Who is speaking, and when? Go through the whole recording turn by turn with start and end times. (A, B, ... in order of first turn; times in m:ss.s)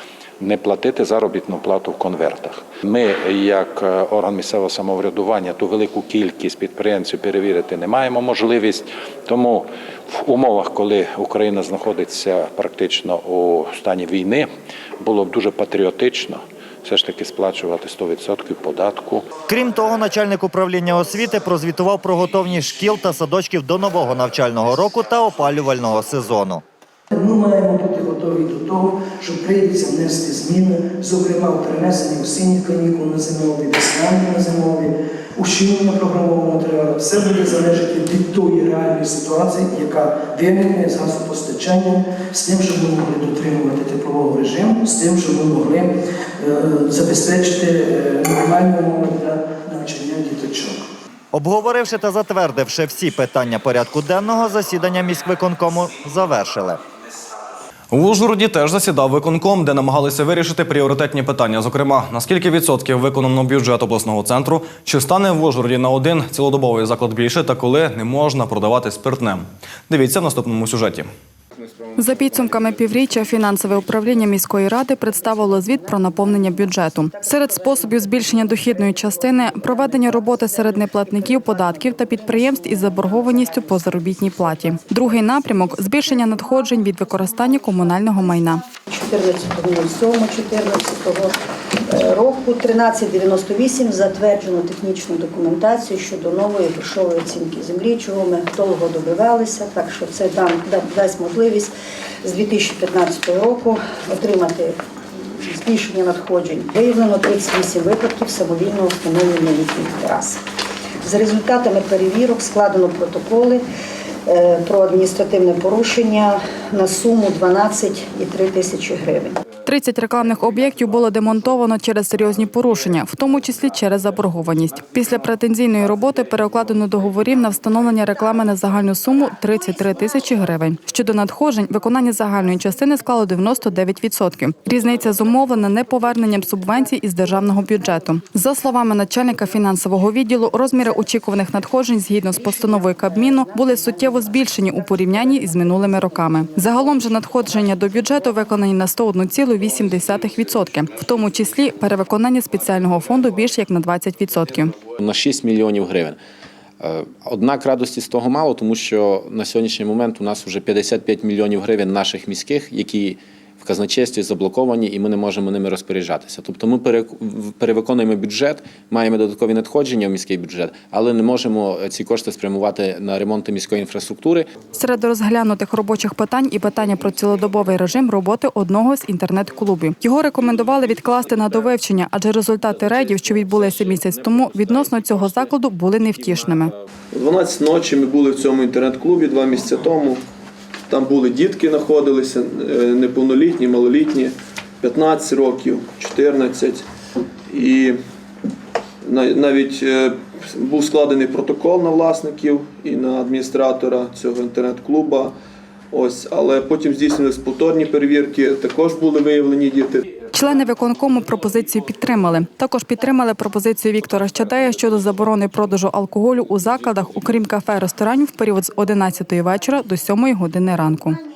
0:00.4-0:19.3 A
0:19.5-0:26.6 B
0:27.1-0:50.8 C
0:51.3-0:56.8 B
0:57.9-1:11.1 D
1:12.0-1:28.6 E
1:15.2-1:24.9 F
1:28.9-1:31.3 F
1:31.9-1:41.7 F
1:42.2-1:44.7 F
1:45.4-1:50.4 F
1:51.0-1:53.6 F
1:54.3-1:59.4 F
1:59.6-2:34.7 E
2:22.4-2:24.5 F
2:34.9-2:36.2 G
2:36.8-2:54.5 G
2:54.8-3:06.7 E
3:02.7-3:05.5 G
3:06.2-3:06.6 G
3:07.1-3:10.2 H
3:10.9-3:16.8 H
3:17.5-3:18.0 H
3:19.0-3:25.3 H
3:25.9-3:30.1 H
3:30.3-3:41.2 E